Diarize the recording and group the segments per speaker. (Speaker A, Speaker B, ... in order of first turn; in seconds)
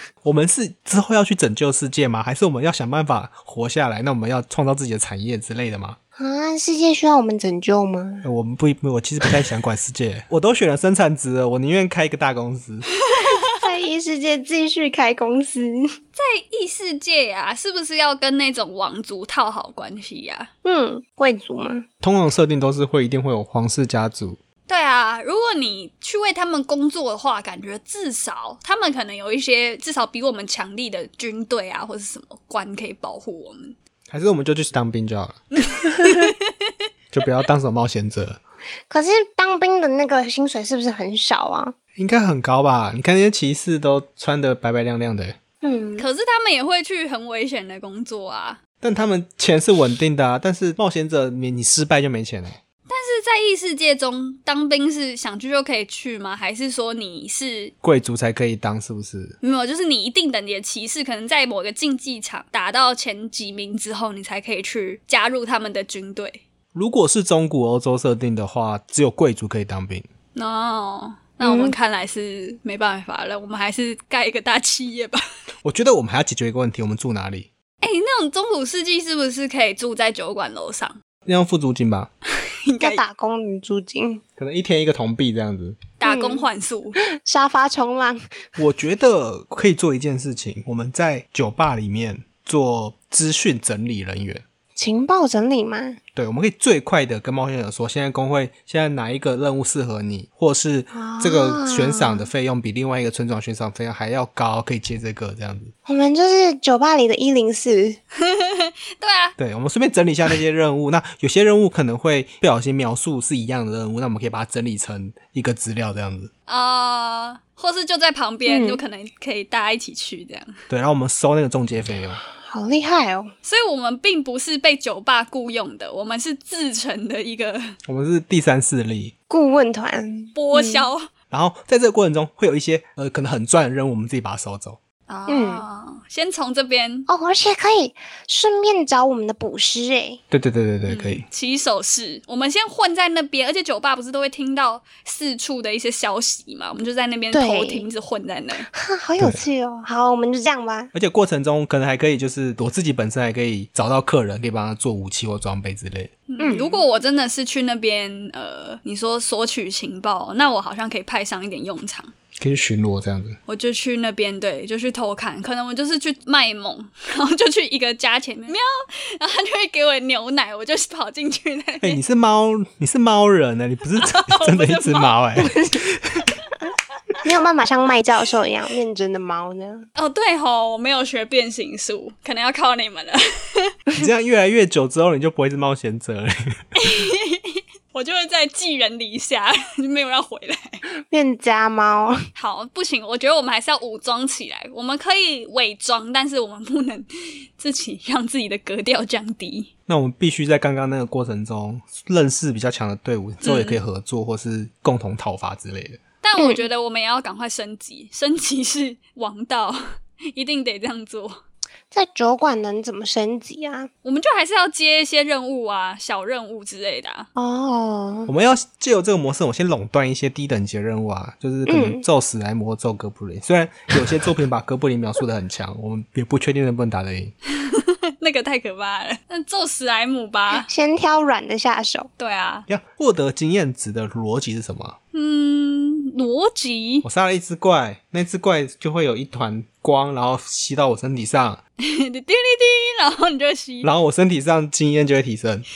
Speaker A: 0.2-6.0, 8.2-12.8, 22.0-24.4, 34.1-35.4, 37.1-38.4, 42.0-45.4, 48.8-52.6, 57.8-59.4, 66.7-70.0, 75.6-77.5, 81.2-82.1, 84.4-85.8, 88.6-94.4, 96.1-105.7, 109.4-116.3, 120.7-122.2, 127.8-129.1, 131.3-134.8, 140.3-141.2, 150.9-156.1, 162.4-163.4, 171.8-176.3, 184.0-186.6, 199.9-206.0, 218.3-227.3, 232.7-234.9, 237.0-241.6, 243.8-245.6
Speaker B: 6.2-8.2, 13.4-15.9, 20.6-21.9, 38.9-41.7, 45.6-46.0, 71.4-71.7, 82.8-84.2, 86.0-86.4, 87.0-88.2, 94.8-96.0, 100.9-102.3, 105.8-108.0, 118.5-118.8, 122.3-123.3, 129.3-130.9, 135.3-135.6, 137.1-140.2, 147.3-147.8, 148.7-150.9, 156.4-156.8, 175.4-175.8, 177.2-179.8, 191.1-192.2, 206.4-206.6, 211.9-213.9, 217.3-218.3, 221.7-222.0, 230.5-232.1
Speaker C: 13.1-13.5, 16.1-20.5, 24.7-33.8, 35.6-36.7, 46.0-48.6, 52.9-57.7, 59.4-66.4, 70.3-75.2, 77.8-81.0, 82.7-83.0, 86.0-87.0, 108.2-109.3, 116.5-120.6, 123.4-127.7, 130.3-131.1, 135.1-137.1, 140.9-148.7, 156.3-162.1, 163.5-168.6, 169.2-172.0, 174.0-175.1, 179.9-183.7, 186.8-190.8, 192.3-199.7, 203.4-203.8, 206.2-211.4, 214.0-217.3, 227.6-230.7, 232.2-232.7, 235.1-237.1, 241.8-243.9